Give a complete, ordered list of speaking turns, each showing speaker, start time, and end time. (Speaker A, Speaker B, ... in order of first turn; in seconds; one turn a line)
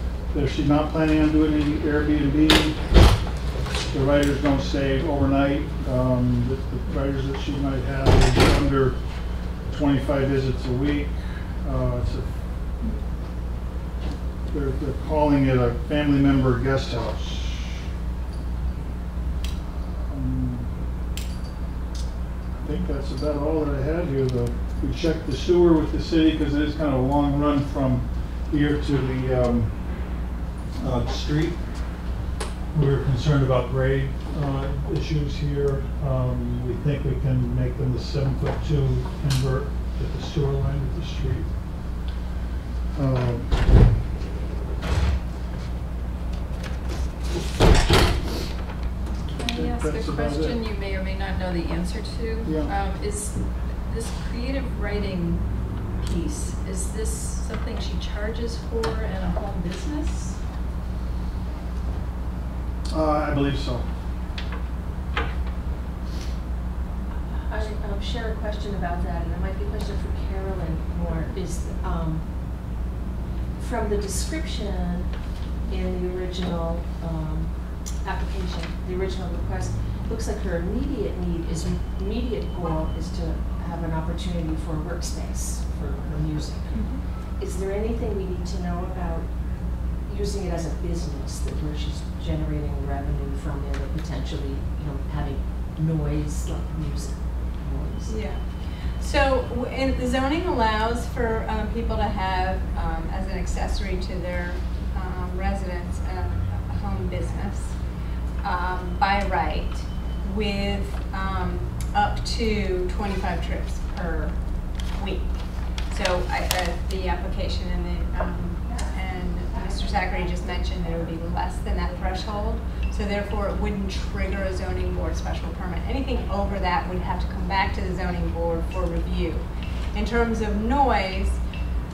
Speaker A: 0.3-2.8
Speaker A: 3.9-9.0
Speaker A: 9.7-12.4
Speaker A: 14.5-17.9
Speaker A: 19.6-20.7
Speaker A: 22.6-30.2
Speaker A: 30.8-31.6
Speaker A: 32.7-41.5
Speaker A: 42.9-43.6
Speaker B: 49.2-60.4
Speaker A: 49.5-50.6
Speaker A: 52.4-52.7
Speaker A: 62.9-63.9
Speaker C: 67.1-72.8
Speaker C: 73.5-98.2
Speaker D: 86.7-87.0
Speaker D: 98.1-107.8
Speaker D: 108.4-131.4
Speaker C: 119.5-120.9